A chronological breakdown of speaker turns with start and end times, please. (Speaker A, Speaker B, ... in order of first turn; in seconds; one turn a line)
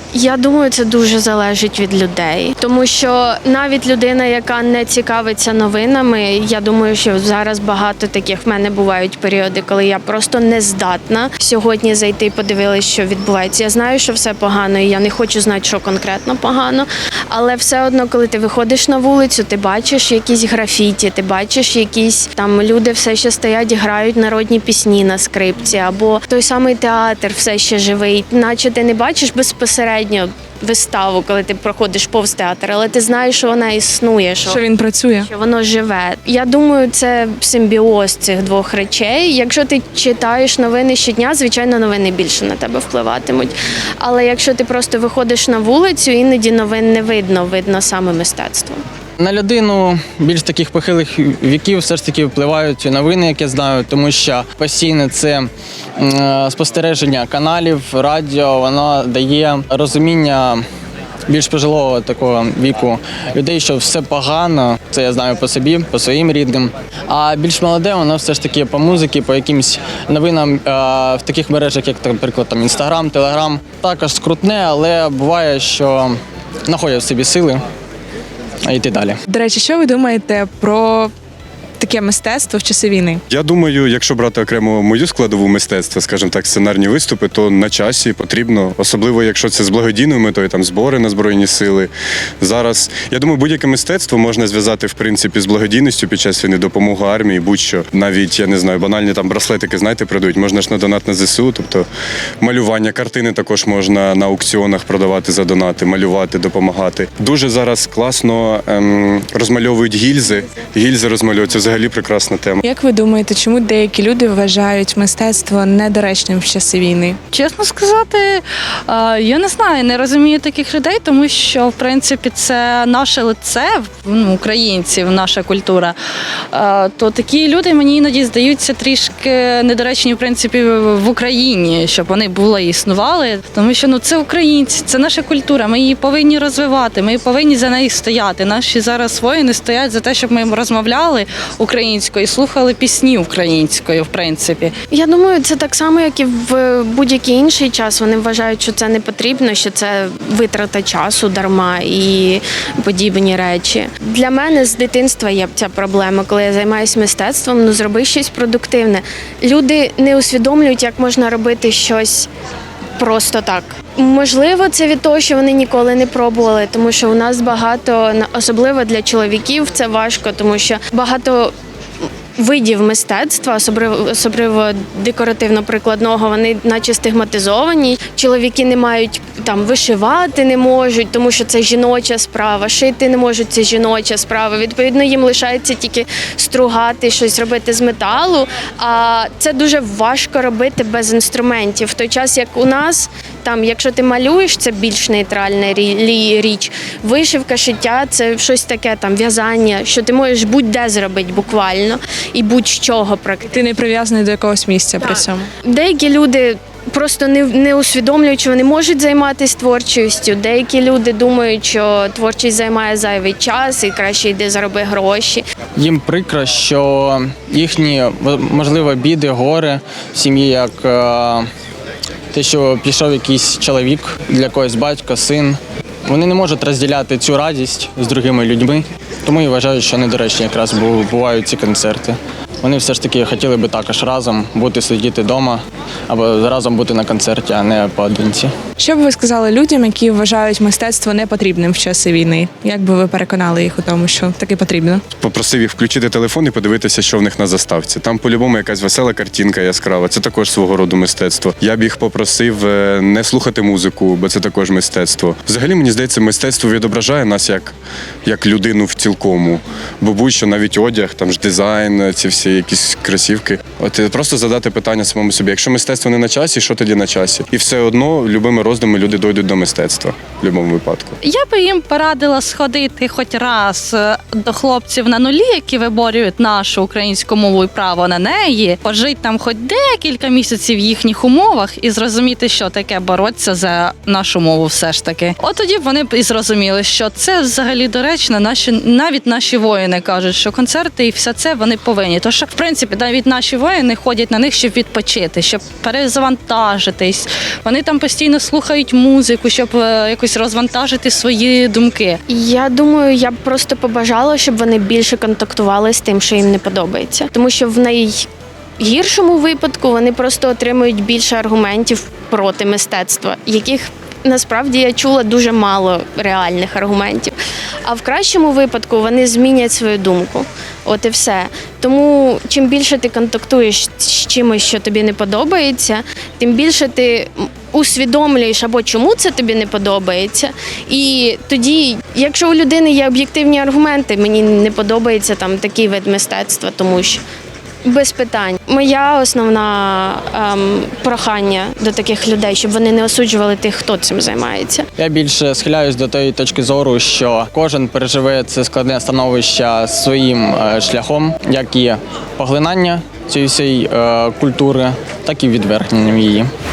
Speaker A: 0.1-34.6
Speaker B: 34.5-35.3
Speaker A: 35.2-48.8
Speaker C: 49.2-60.6
Speaker C: 61.3-77.7
Speaker C: 78.7-79.2
Speaker B: 79.3-81.1
Speaker B: 81.8-83.2
Speaker D: 83.3-101.9
Speaker D: 102.4-112.6
Speaker B: 112.6-117.2
Speaker E: 117.3-126.0
Speaker E: 126.5-144.7
Speaker A: 144.9-162.3
Speaker A: 163.0-171.5
Speaker A: 172.4-203.6
Speaker B: 203.5-205.5
Speaker A: 205.7-215.4
Speaker C: 215.8-221.5
Speaker C: 222.3-238.5
Speaker B: 238.8-245.0
Speaker D: 245.2-271.2
Speaker E: 271.2-302.2
Speaker A: 302.3-308.3
Speaker A: 308.8-317.3
Speaker A: 317.9-337.2
Speaker A: 337.8-344.9
Speaker C: 345.0-356.5